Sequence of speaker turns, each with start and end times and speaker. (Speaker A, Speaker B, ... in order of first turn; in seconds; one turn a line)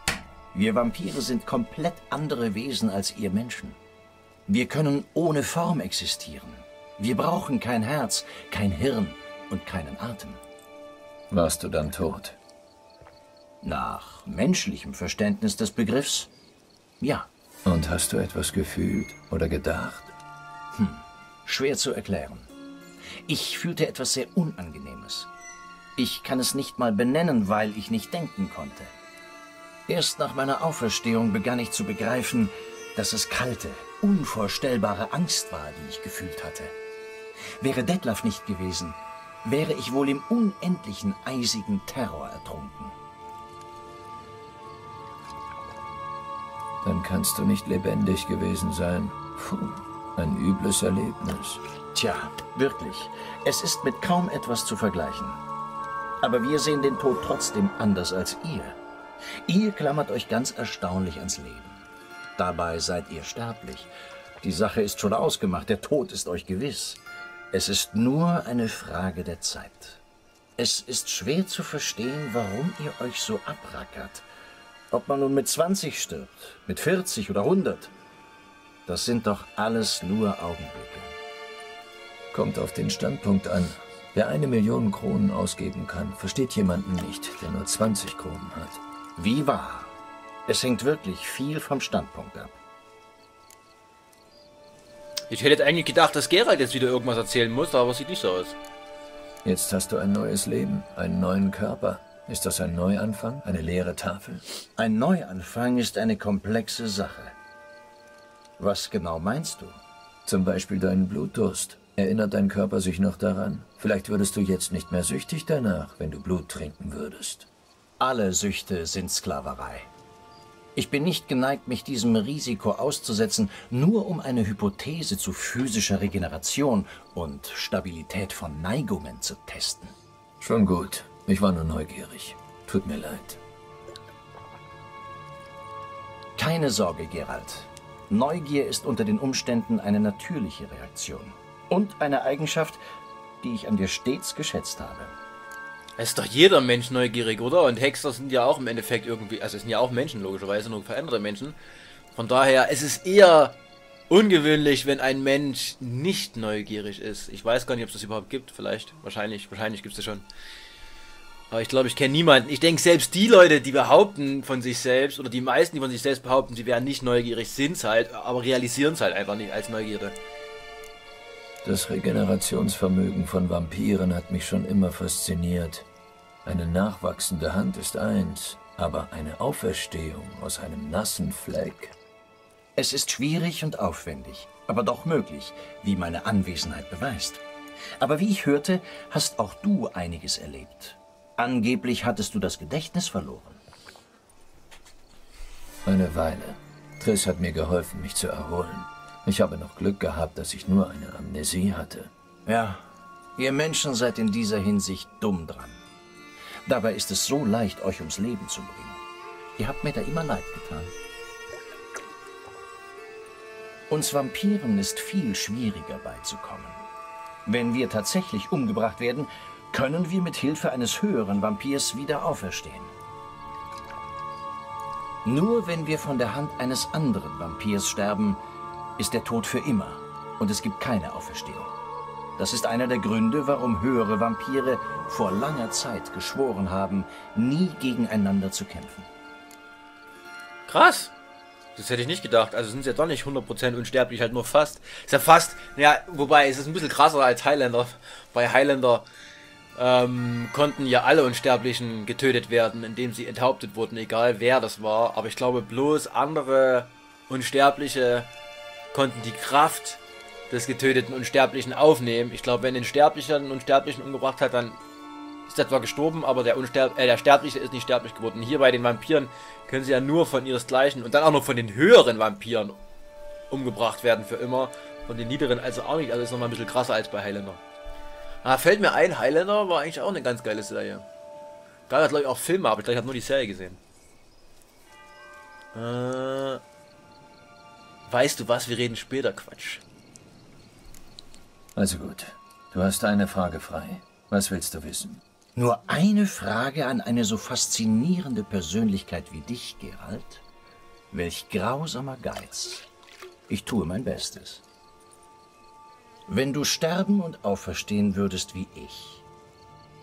Speaker A: 0.5-3.8
Speaker A: 4.5-10.4
Speaker B: 11.3-12.4
Speaker A: 13.6-16.3
Speaker A: 17.0-17.3
Speaker B: 17.6-20.1
Speaker A: 20.7-22.5
Speaker A: 23.3-25.3
Speaker A: 26.0-29.0
Speaker A: 29.9-36.8
Speaker A: 37.6-43.0
Speaker B: 46.8-51.6
Speaker A: 51.9-55.4
Speaker A: 56.2-58.8
Speaker A: 59.5-61.9
Speaker A: 62.4-70.0
Speaker A: 70.6-74.2
Speaker A: 74.9-77.9
Speaker A: 78.9-81.2
Speaker B: 82.3-88.8
Speaker A: 89.2-90.0
Speaker A: 90.5-92.6
Speaker C: 95.3-98.6
Speaker B: 99.5-104.4
Speaker A: 104.8-107.4
Speaker A: 108.6-109.8
Speaker B: 110.3-117.5
Speaker A: 118.0-119.9
Speaker A: 120.8-129.9
Speaker B: 130.4-133.4
Speaker A: 136.4-142.8
Speaker A: 143.4-145.2
Speaker C: 146.0-151.6
Speaker C: 152.2-153.6
Speaker C: 154.1-160.3
Speaker C: 161.5-170.2
Speaker B: 171.6-175.9
Speaker B: 176.4-181.9
Speaker A: 182.8-187.4
Speaker A: 188.0-193.6
Speaker B: 195.9-202.1
Speaker A: 202.5-202.8
Speaker A: 203.4-205.8
Speaker A: 206.7-209.0
Speaker A: 209.6-210.9
Speaker A: 213.9-216.8
Speaker A: 217.4-222.9
Speaker A: 225.2-228.4
Speaker A: 229.0-231.7
Speaker A: 232.4-239.1
Speaker C: 240.7-241.1
Speaker C: 241.8-249.1
Speaker C: 249.8-258.3
Speaker C: 258.9-264.8
Speaker C: 265.5-272.8
Speaker C: 273.5-277.6
Speaker C: 278.4-281.1
Speaker C: 281.9-283.8
Speaker C: 285.7-286.6
Speaker C: 288.1-289.8
Speaker B: 291.8-295.2
Speaker A: 295.6-300.4
Speaker A: 301.1-302.9
Speaker A: 303.5-304.6
Speaker A: 306.3-309.2